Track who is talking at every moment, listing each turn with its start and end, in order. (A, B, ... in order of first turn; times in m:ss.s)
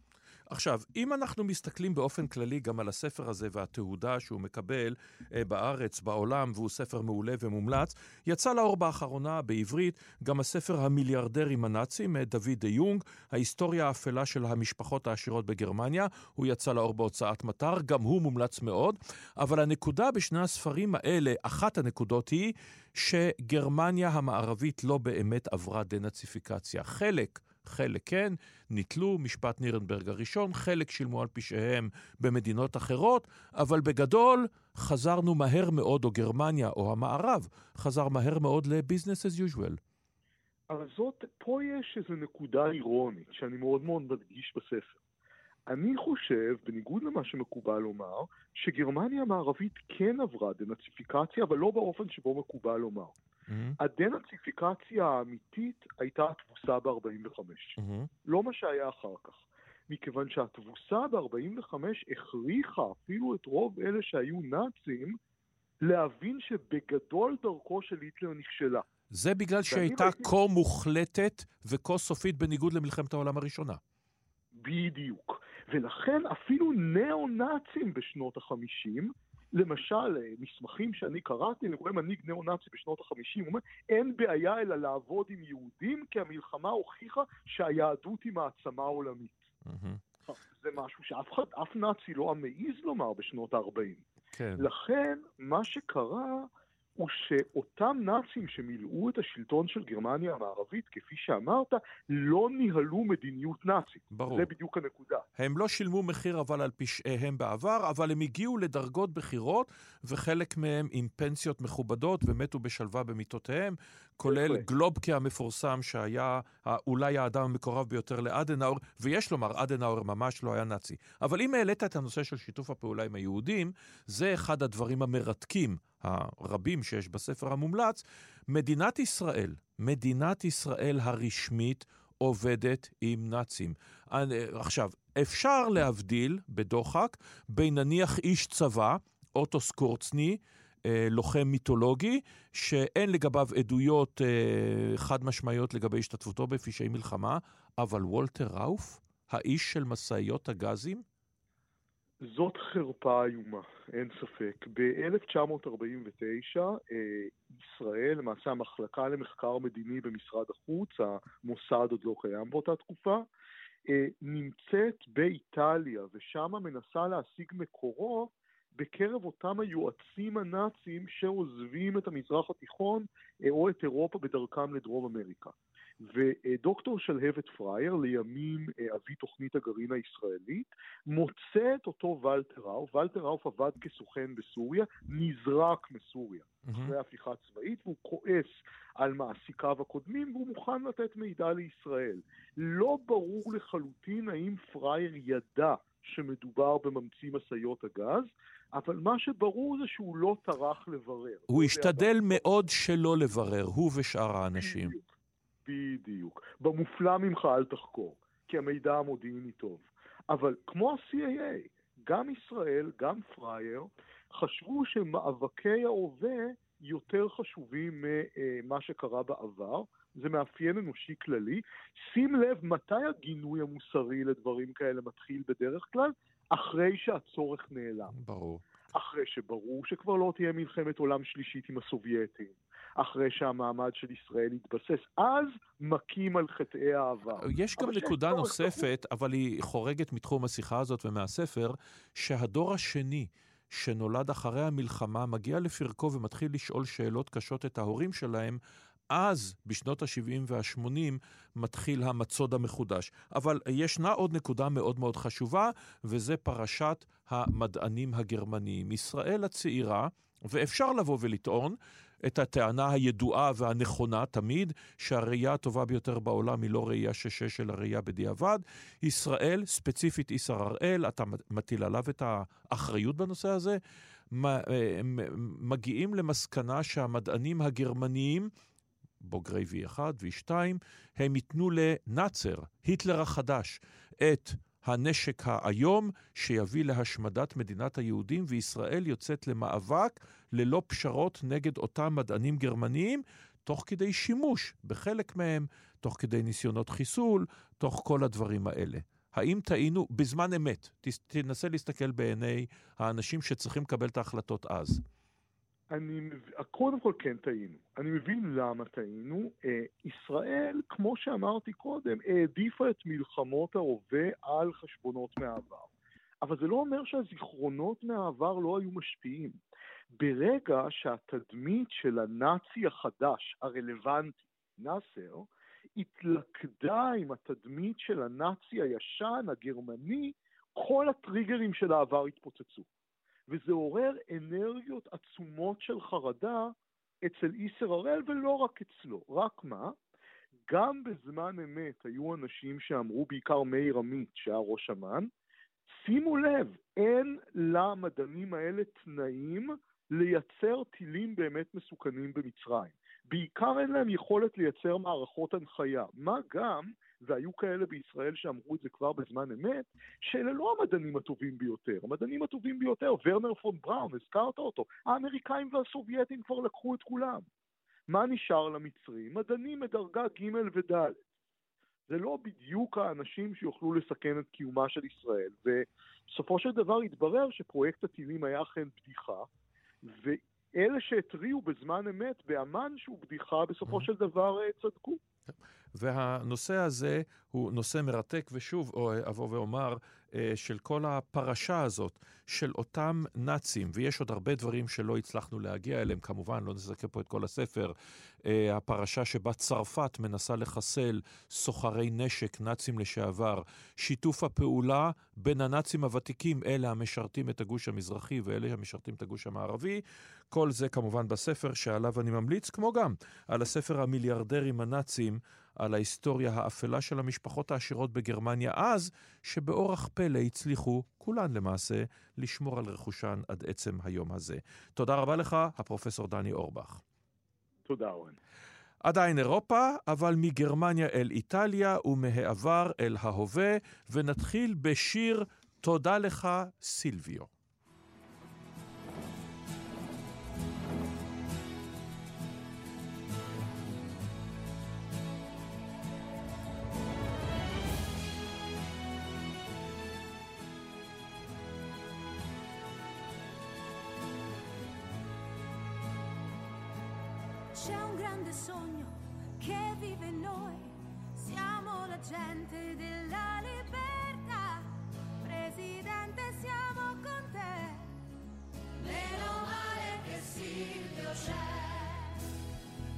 0:00.5-0:39.8 A
0:40.7-0:45.0 B
0:45.7-0:53.1 B
0:53.5-0:53.8 A
0:53.8-1:05.2 B
0:57.8-0:58.1 A
1:05.8-1:08.8 B
1:09.1-1:13.8 A
1:09.7-1:10.3 B
1:14.6-1:29.5 B
1:29.6-1:30.0 A
1:30.3-1:34.0 B
1:34.4-1:34.7 A
1:34.6-1:45.2 B
1:44.1-1:44.5 A
1:45.4-2:31.0 A
1:54.3-1:54.6 B
2:32.2-2:43.3 B
2:43.8-3:22.5 B
3:06.7-3:06.9 A
3:21.5-3:25.0 A
3:24.6-3:25.0 B
3:25.6-3:48.1 B
3:48.1-3:48.6 A
3:48.9-3:58.8 B
3:57.4-4:08.6 A
4:09.1-4:33.8 A
4:34.3-4:38.5 A
4:39.2-5:05.0 A
5:05.9-5:15.9 B
5:16.4-5:19.6 B
5:20.2-5:32.8 B
5:33.5-5:39.9 B
5:40.7-5:45.3 B
5:46.0-6:07.4 B
6:08.1-6:11.2 B
6:12.1-6:19.5 B
6:20.0-6:25.2 B
6:25.5-7:07.0 A
7:07.9-7:08.4 B
7:09.0-7:17.5 A
7:37.7-7:44.9 C
7:45.4-7:48.1 C
7:49.0-7:52.4 C